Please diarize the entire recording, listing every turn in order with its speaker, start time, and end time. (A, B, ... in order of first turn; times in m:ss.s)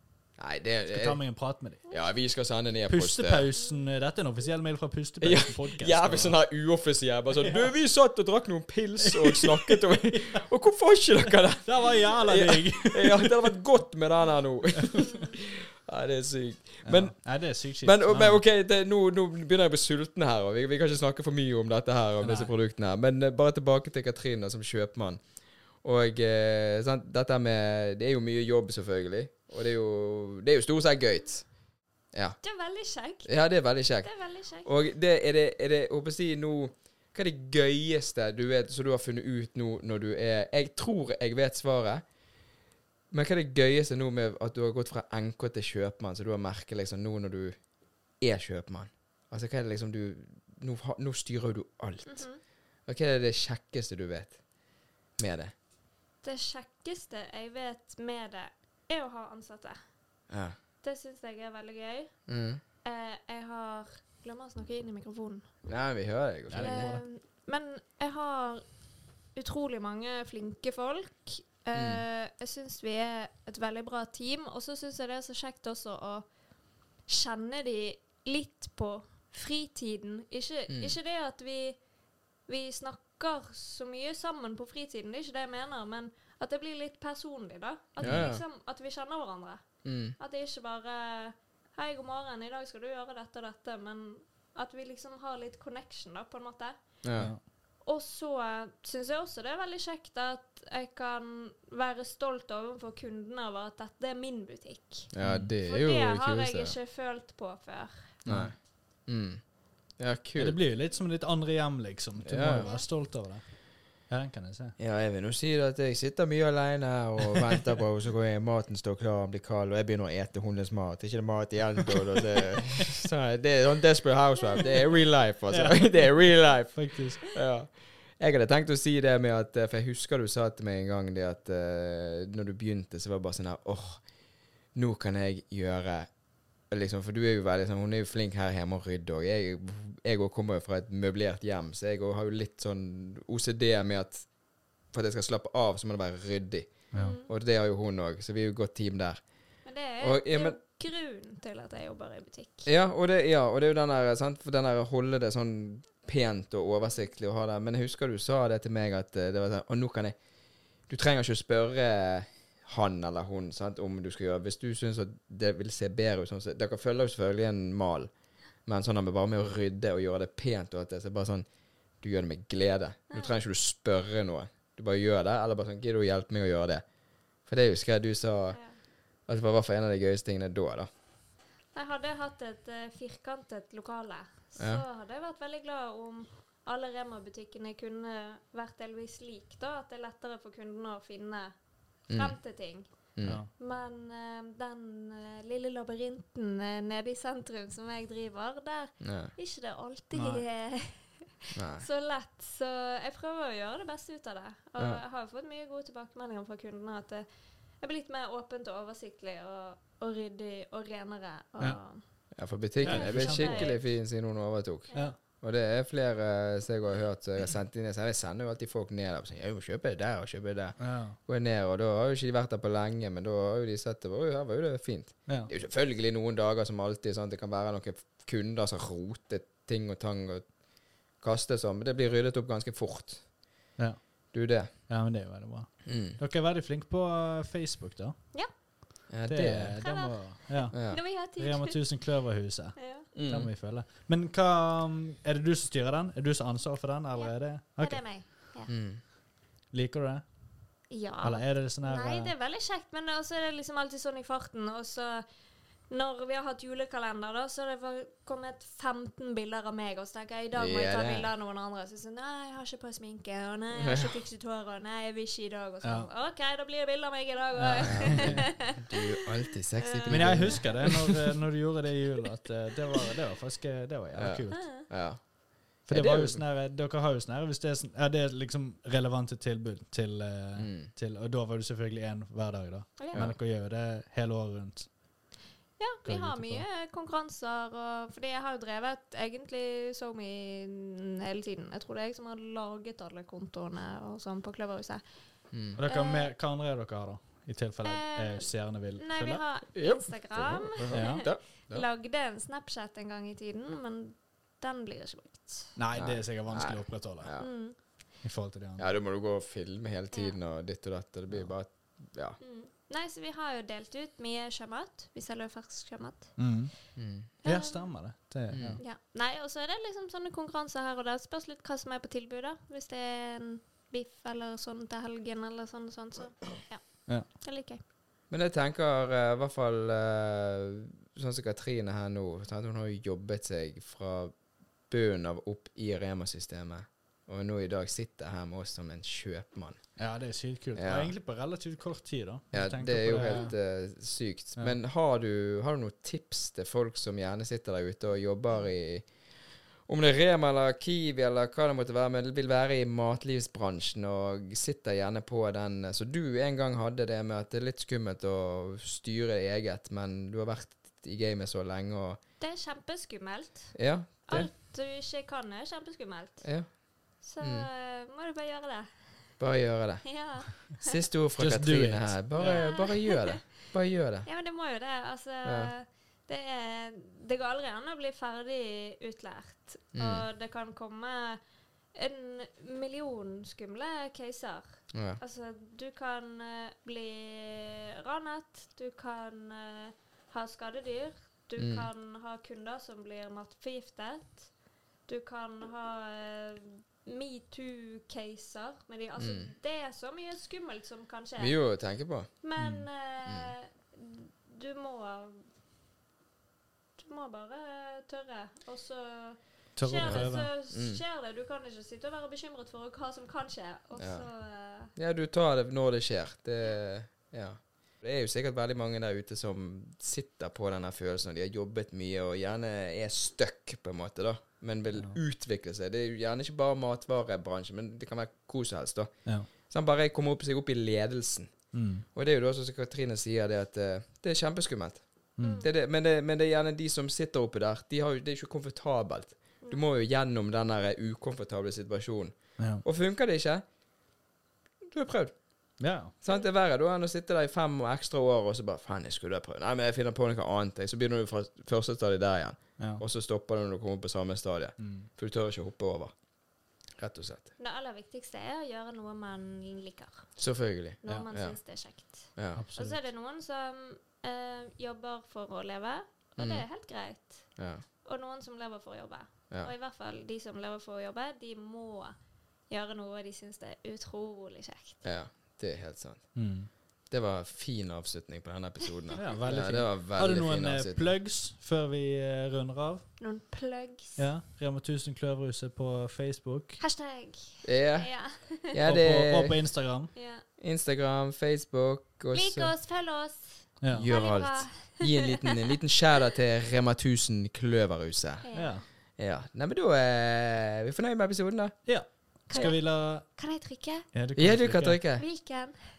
0:00.4-0:01.2 A
0:00.9-0:01.8 B
0:01.9-0:03.5 A
0:02.9-0:06.4 B
0:05.2-0:25.3 A
0:07.4-0:07.7 B
0:09.0-0:10.4 B
0:11.6-0:13.5 B
0:16.8-0:18.4 B
0:22.2-0:22.5 B
0:25.8-0:31.5 A
0:32.1-0:32.4 A
0:32.4-0:33.3 C
0:33.2-0:42.0 A
0:34.0-0:34.7 C
0:43.1-0:47.6 A
0:48.2-0:52.3 A
0:52.0-0:52.4 C
0:52.9-0:54.4 A
0:55.2-0:55.5 A
0:56.2-0:59.8 C
1:00.3-1:00.6 A
1:00.8-1:02.1 C
1:02.3-1:02.6 A
1:02.8-1:05.7 C
1:05.7-1:07.0 A
1:06.5-1:07.0 B
1:06.6-1:08.6 C
1:09.4-1:16.3 C
1:11.7-1:12.0 A
1:17.1-1:21.8 C
1:20.7-1:21.0 A
1:22.5-1:29.7 C
1:28.0-1:28.4 A
1:28.0-1:28.3 B
1:29.8-1:30.2 A
1:30.2-1:36.8 C
1:37.0-1:37.3 A
1:37.2-1:37.4 B
1:37.8-1:45.1 C
1:45.1-1:46.8 A
1:45.2-1:45.5 B
1:45.7-1:48.2 C
1:48.2-1:48.5 B
1:48.3-1:49.4 A
1:50.0-1:50.6 A
1:50.4-1:54.8 B
1:52.2-1:52.7 A
1:52.6-1:52.9 C
1:54.8-2:14.1 A
2:04.4-2:05.1 C
2:05.5-2:07.2 B
2:14.7-2:16.1 A
2:16.7-2:24.3 A
2:24.9-2:29.2 A
2:27.0-2:27.3 C
2:29.6-2:32.7 C
2:30.0-2:30.6 A
2:32.7-2:40.2 A
2:40.9-2:48.1 A
2:48.7-2:51.5 A
2:52.0-2:56.8 A
2:57.5-2:58.6 A
2:59.3-3:00.9 A
3:01.7-3:11.5 C
3:04.6-3:04.8 A
3:12.1-3:12.9 C
3:12.1-3:12.4 A
3:13.2-3:13.4 A
3:13.2-3:13.5 B
3:13.5-3:27.3 C
3:19.0-3:19.3 A
3:20.1-3:20.4 B
3:21.5-3:21.8 A
3:27.8-3:32.0 C
3:32.4-3:50.5 A
3:32.8-3:33.7 B
3:32.8-3:33.9 C
3:40.8-3:41.2 B
3:51.2-3:53.3 A
3:53.8-3:54.3 B
3:54.3-3:54.7 A
3:54.9-3:58.2 B
3:55.8-3:56.2 A
3:59.1-3:59.8 A
3:59.3-4:08.0 B
3:59.8-4:01.8 C
4:00.7-4:01.0 A
4:02.8-4:03.1 C
4:03.2-4:03.5 A
4:07.2-4:08.7 C
4:08.7-4:09.0 A
4:09.7-4:10.2 B
4:10.9-4:15.2 C
4:11.2-4:12.3 B
4:15.9-4:29.1 C
4:20.6-4:21.3 A
4:23.8-4:24.2 A
4:25.8-4:26.1 B
4:27.6-4:28.5 B
4:27.8-4:31.1 A
4:29.8-4:30.7 C
4:30.1-4:34.7 B
4:34.2-4:36.4 A
4:34.5-4:34.8 C
4:35.9-4:44.9 B
4:40.6-4:40.9 A
4:43.0-4:43.3 C
4:43.1-4:43.4 A
4:45.8-4:55.0 C
4:46.0-4:46.6 B
4:55.5-4:55.8 A
4:55.8-4:59.4 B
4:55.9-4:56.3 C
4:57.8-5:05.8 C
4:59.8-5:01.8 A
5:00.9-5:01.3 B
5:05.8-5:07.4 B
5:06.0-5:07.5 A
5:07.4-5:07.8 C
5:08.2-5:08.9 B
5:08.8-5:12.4 A
5:12.4-5:16.4 C
5:16.4-5:16.7 B
5:17.0-5:17.3 A
5:17.4-5:17.9 C
5:17.4-5:18.8 B
5:18.5-5:18.8 A
5:18.8-5:27.8 C
5:28.3-5:34.3 A
5:34.9-5:39.9 A
5:40.0-5:43.5 B
5:40.8-5:41.1 A
5:42.5-5:49.1 A
5:43.2-5:43.5 C
5:49.9-6:02.2 A
6:02.4-6:06.5 C
6:03.7-6:04.5 A
6:06.4-6:06.7 A
6:07.2-6:08.9 C
6:07.4-6:07.7 A
6:09.4-6:14.3 A
6:10.0-6:11.0 C
6:11.4-6:12.6 B
6:12.4-6:13.4 C
6:14.3-6:21.4 C
6:15.4-6:15.7 A
6:20.0-6:20.2 A
6:21.9-6:34.5 C
6:24.9-6:25.2 A
6:31.6-6:31.9 A
6:35.1-6:41.6 C
6:39.2-6:39.5 A
6:41.4-6:42.3 A
6:42.4-6:45.4 C
6:42.6-6:42.9 B
6:43.3-6:43.5 A
6:47.0-6:54.9 C
6:49.8-6:50.5 B
6:50.0-6:51.0 A
6:54.0-6:54.3 A
6:55.0-7:11.6 A
7:04.9-7:05.2 B
7:11.7-7:12.0 B
7:12.1-7:23.6 A
7:15.4-7:15.7 B
7:15.4-7:15.7 C
7:22.6-7:22.8 B
7:24.8-7:25.3 A
7:25.8-7:26.1 B
7:26.2-7:36.1 A
7:32.8-7:33.0 B
7:34.8-7:35.1 B
7:37.0-7:37.5 A
7:37.6-7:40.3 C
7:40.4-7:41.6 A
7:41.0-7:47.5 C
7:42.4-7:42.6 A
7:42.6-7:43.0 B
7:46.4-7:46.6 A
7:48.0-7:52.2 C
7:52.7-7:55.0 C
7:55.0-7:56.3 A
7:56.4-7:56.7 B
7:57.1-8:01.1 A
7:59.2-8:03.1 B
8:03.2-8:04.2 C
8:04.2-8:06.8 B
8:06.8-8:08.8 C
8:07.6-8:09.6 A
8:08.9-8:10.1 B
8:10.2-8:10.4 C
8:10.6-8:12.7 A
8:12.3-8:15.5 C
8:13.8-8:14.1 B
8:13.9-8:18.5 A
8:18.4-8:18.8 C
8:18.6-8:18.8 B
8:19.2-8:21.8 A
8:21.9-8:23.2 B
8:22.5-8:24.1 C
8:24.1-8:25.0 B
8:24.4-8:25.3 A
8:25.2-8:25.8 C